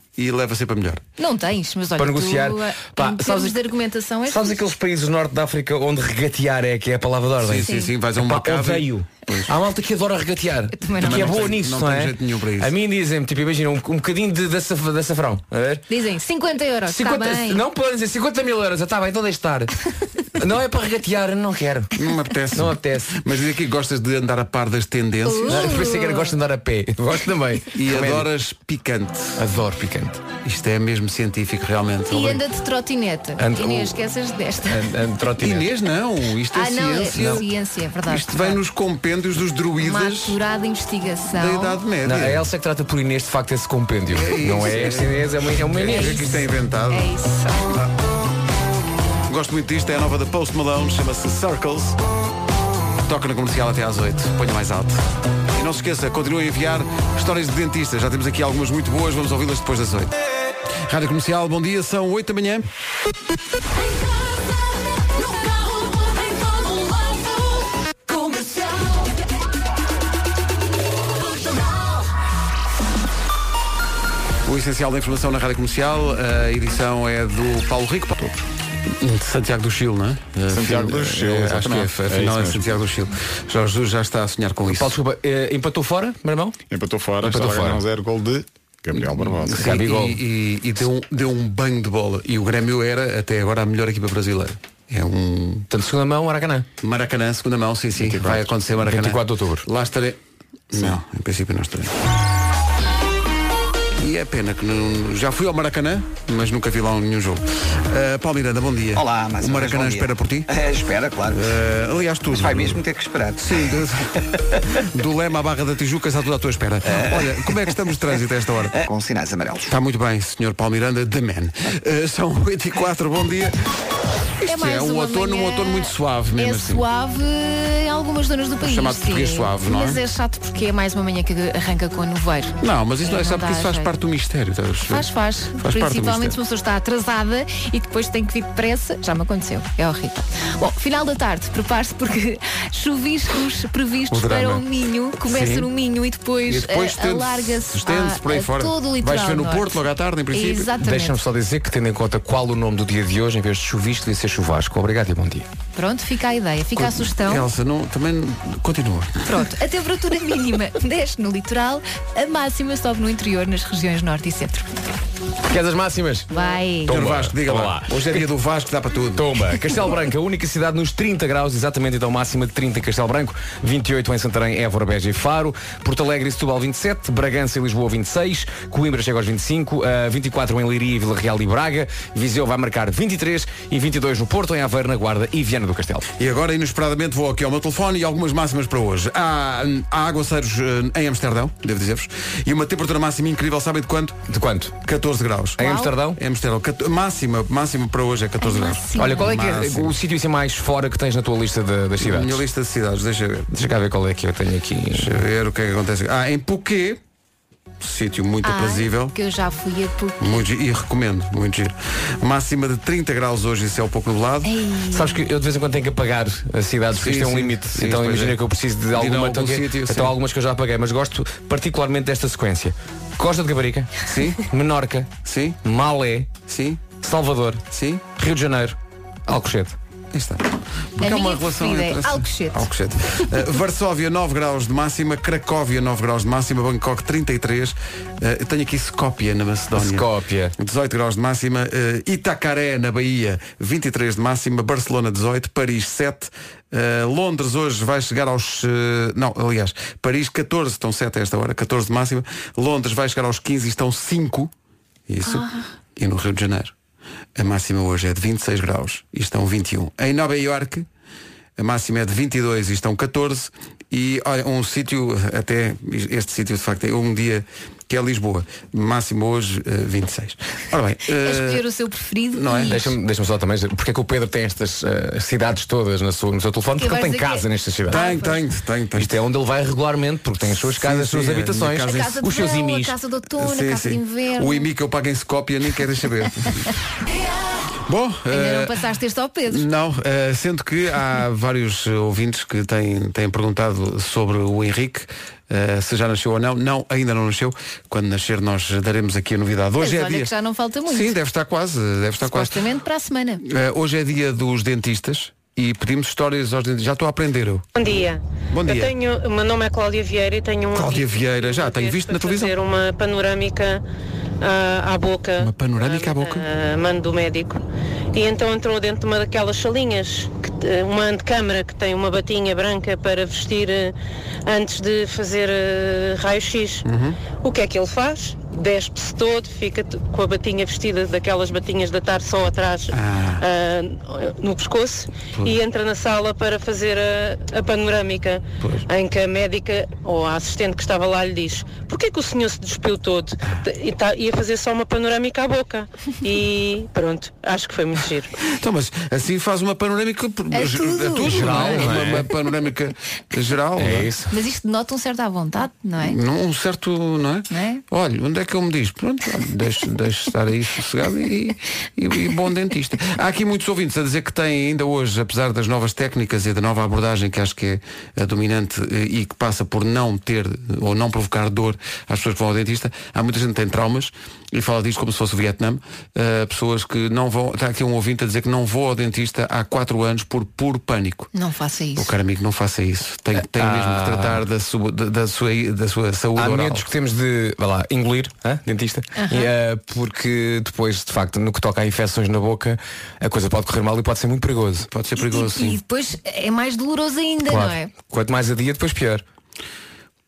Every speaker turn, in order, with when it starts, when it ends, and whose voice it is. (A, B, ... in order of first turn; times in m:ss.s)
0:00.2-0:01.0 A
0:01.2-0:04.6 B
0:02.0-0:03.6 C
0:04.3-0:15.8 C
0:07.4-0:09.5 A
0:07.6-0:07.9 B
0:10.7-0:11.4 B
0:11.0-0:12.7 A
0:15.9-0:17.6 B
0:16.9-0:19.8 C
0:20.4-0:22.0 C
0:22.0-0:25.8 A
0:22.5-0:23.2 C
0:25.2-0:26.4 B
0:25.5-0:28.3 C
0:27.7-0:29.4 A
0:29.4-0:30.2 C
0:30.4-0:32.4 A
0:32.1-0:34.9 B
0:33.4-0:33.9 C
0:34.6-0:35.7 C
0:35.4-0:37.5 A
0:36.5-0:38.6 B
0:38.1-0:40.4 A
0:39.8-0:41.8 B
0:41.3-0:42.5 A
0:42.0-0:46.2 C
0:44.1-0:47.1 A
0:45.9-0:47.8 B
0:49.3-0:52.0 A
0:53.1-0:55.0 A
0:55.5-1:00.1 A
1:00.9-1:02.7 A
1:14.4-1:25.0 A
1:20.5-1:22.7 D
1:24.7-1:26.6 C
1:26.7-1:29.7 D
1:27.2-1:27.8 C
1:29.0-1:35.7 A
1:29.5-1:30.2 C
1:35.7-1:36.7 C
1:36.8-1:40.2 A
1:38.0-1:38.5 D
1:38.8-1:39.7 C
1:40.7-1:42.0 A
1:44.0-1:50.5 A
1:49.0-1:51.6 E
1:51.3-1:52.8 A
1:52.3-1:54.8 E
1:53.4-1:54.2 A
1:54.8-1:58.8 A
1:56.9-1:57.7 E
1:58.8-1:59.7 E
1:59.7-2:03.6 A
2:04.4-2:06.8 A
2:04.5-2:13.9 B
2:08.6-2:10.0 A
2:12.6-2:16.4 A
2:14.9-2:29.8 B
2:24.1-2:24.6 A
2:25.2-2:25.7 A
2:26.5-2:30.7 A
2:30.3-2:31.2 B
2:30.8-2:35.5 C
2:35.8-2:37.5 B
2:36.8-2:39.4 A
2:39.3-2:44.7 B
2:45.5-2:46.3 C
2:46.3-2:46.9 B
2:46.9-2:48.2 C
2:46.9-2:49.4 A
2:49.2-3:06.1 C
3:06.2-3:14.2 A
3:14.3-3:14.7 C
3:14.8-3:20.0 A
3:15.6-3:16.2 C
3:15.6-3:15.9 B
3:18.4-3:19.3 B
3:19.0-3:22.4 C
3:22.0-3:23.6 A
3:23.5-3:25.2 C
3:24.9-3:27.0 A
3:27.8-3:29.1 A
3:28.4-3:30.4 B
3:30.2-3:34.5 A
3:34.4-3:35.2 B
3:34.9-3:45.1 C
3:36.9-3:38.4 A
3:38.9-3:40.2 A
3:44.1-3:44.5 A
3:45.2-3:45.6 A
3:45.6-3:46.3 C
3:46.5-3:46.9 A
3:47.0-3:47.6 C
3:47.7-3:48.1 A
3:48.2-3:48.8 C
3:49.3-3:49.8 C
3:50.1-4:14.5 A
3:51.0-3:53.3 B
3:59.8-4:00.6 C
4:15.1-4:16.7 A
4:15.3-4:15.6 B
4:17.4-4:20.9 A
4:21.6-4:31.7 A
4:31.1-4:32.8 B
4:32.3-4:32.9 A
4:32.7-4:38.0 C
4:36.8-4:38.4 B
4:37.9-4:39.2 A
4:39.0-4:43.0 C
4:40.4-4:42.2 A
4:41.8-4:44.7 B
4:43.4-4:46.6 A
4:47.9-4:48.8 A
4:48.3-4:49.7 B
4:49.5-5:00.3 A
4:59.8-5:01.2 B
5:00.9-5:02.6 A
5:02.2-5:03.4 B
5:03.4-5:07.7 A
5:07.8-5:13.8 F
5:08.5-5:08.9 A
5:10.7-5:12.5 A
5:14.4-5:17.6 F
5:15.4-5:16.5 A
5:18.1-5:23.9 F
5:24.5-5:26.8 F
5:26.8-5:27.2 A
5:27.4-5:48.3 F
5:32.9-5:33.4 A
5:38.6-5:38.9 A
5:48.4-5:54.1 A
5:50.5-5:51.7 B
5:51.3-5:52.3 C
5:53.8-5:54.3 C
5:54.3-5:56.2 B
5:56.0-6:21.3 A
5:57.5-5:57.8 B
6:21.3-6:22.1 B
6:22.0-6:26.9 A
6:23.4-6:24.4 C
6:26.4-6:34.9 C
6:29.2-6:29.5 B
6:34.9-6:35.8 A
6:35.2-6:37.9 B
6:37.5-6:39.2 C